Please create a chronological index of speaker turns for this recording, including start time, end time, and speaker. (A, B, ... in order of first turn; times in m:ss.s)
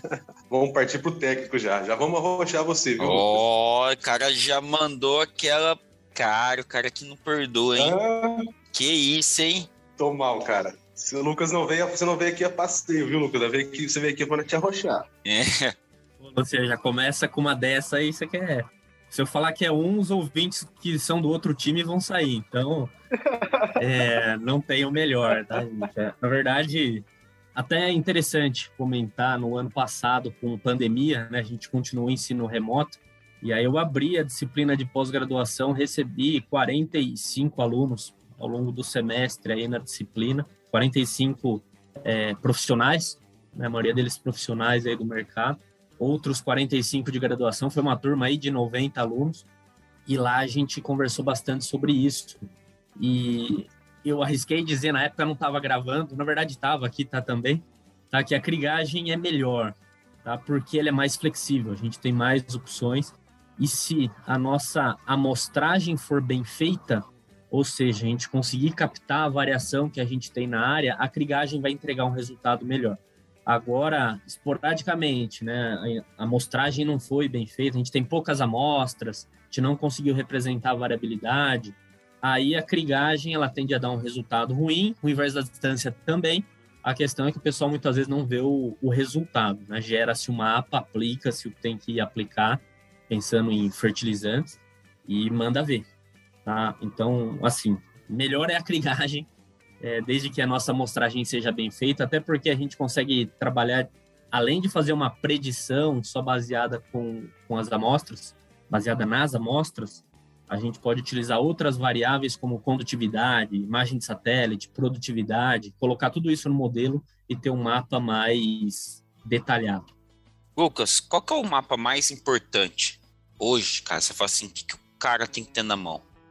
0:00.5-0:03.4 A
0:03.0-0:08.0 B
0:07.8-0:08.4 A
0:08.7-0:09.7 B
0:10.0-0:15.1 A
0:15.2-0:15.8 B
0:16.2-0:22.9 C
0:23.8-0:27.0 C
0:27.6-0:49.4 C
0:50.1-0:52.4 C
0:53.0-1:35.8 C
1:36.4-1:39.3 C
1:39.8-1:59.9 C
2:00.6-2:06.0 B